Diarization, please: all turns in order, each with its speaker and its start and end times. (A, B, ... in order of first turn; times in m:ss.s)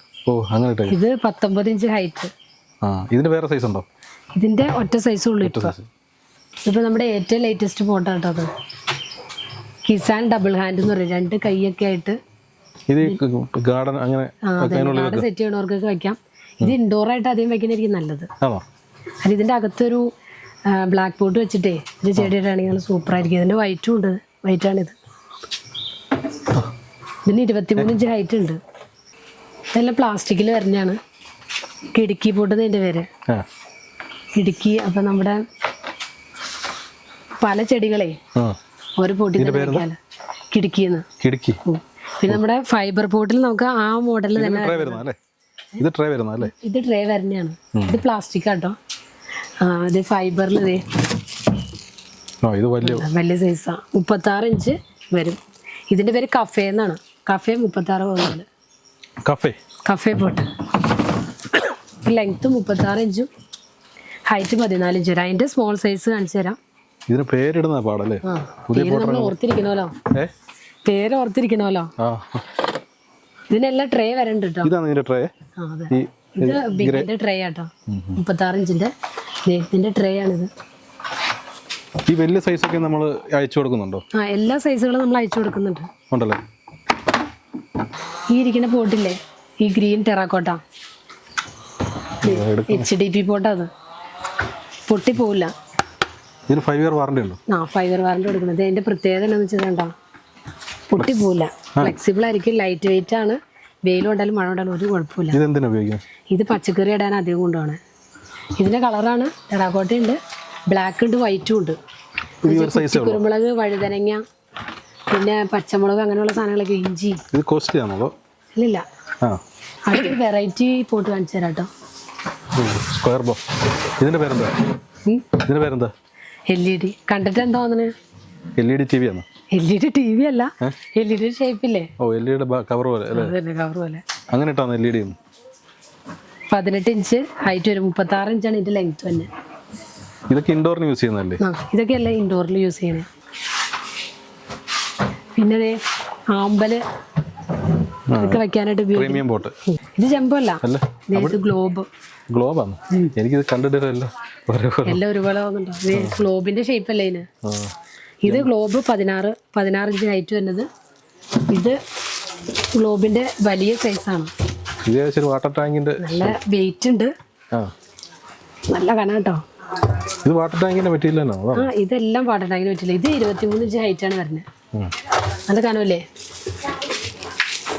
0:00.3-0:01.0 A
0:00.9-0:02.3 B
0:02.8-0:03.8 A
0:04.3-0:05.7 B
0:05.4-0:05.9 A
0:06.6-0:08.5 B
0:09.8-0:12.2 B
0:12.9-0:15.3 A
0:14.4-0:18.3 B
0:19.2-0:20.0 B
0:20.7-0:25.0 B
0:27.2-0:28.6 B
0:29.7-0:31.0 B
0:31.9-0:33.1 B
0:34.3-0:35.4 B
0:37.4-0:38.2 B
0:39.0-0:40.0 B
0:39.4-0:39.9 A
0:40.5-0:41.0 B
0:41.2-0:41.6 A
0:41.6-0:45.0 B
0:44.3-0:45.2 A
0:45.8-0:46.5 A
0:46.4-0:48.8 B
0:47.7-0:48.0 A
0:49.6-0:50.8 B
0:52.4-0:53.1 A
0:52.8-0:58.4 B
0:59.2-0:59.6 A
0:59.8-1:00.5 B
1:02.0-1:03.3 B
1:04.3-1:06.6 B
1:07.1-1:09.4 A
1:08.2-1:09.9 B
1:10.8-1:11.9 B
1:12.0-1:12.4 A
1:13.5-1:14.7 B
1:14.6-1:15.3 A
1:15.6-1:18.9 B
1:15.9-1:17.1 A
1:17.9-1:18.2 A
1:19.4-1:20.5 B
1:22.1-1:24.0 A
1:24.1-1:25.9 B
1:26.1-1:26.4 A
1:28.3-1:30.6 B
1:32.2-1:32.9 A
1:32.2-1:33.7 B
1:34.9-1:35.5 B
1:36.5-1:37.4 A
1:37.5-1:39.9 B
1:40.9-1:45.4 B
1:45.3-1:46.0 A
1:46.3-1:47.8 B
1:48.6-1:51.8 B
1:52.4-1:54.2 B
1:52.4-1:53.2 A
1:55.1-1:57.2 B
1:57.3-1:58.1 A
1:58.5-1:58.8 B
1:59.8-2:01.7 B
2:02.5-2:03.4 A
2:04.0-2:04.6 A
2:05.4-2:05.9 A
2:06.5-2:07.9 B
2:08.6-2:09.2 A
2:09.5-2:11.9 B
2:12.0-2:13.3 A
2:13.1-2:14.0 B
2:14.3-2:15.2 A
2:16.5-2:19.3 B
2:20.3-2:21.4 A
2:21.4-2:23.1 B
2:25.4-2:25.8 B
2:26.3-2:26.8 B
2:28.1-2:29.5 A
2:28.2-2:29.2 B
2:29.7-2:31.9 B
2:30.6-2:31.4 A
2:32.3-2:35.0 A
2:34.8-2:37.2 B
2:35.9-2:36.2 A
2:37.4-2:37.7 A
2:38.2-2:40.7 B
2:41.5-2:41.8 B
2:42.7-2:44.3 B
2:44.8-2:46.3 A
2:46.0-2:47.1 B
2:48.7-2:49.4 B
2:50.2-2:51.7 A
2:51.5-2:54.4 B
2:55.4-2:56.0 B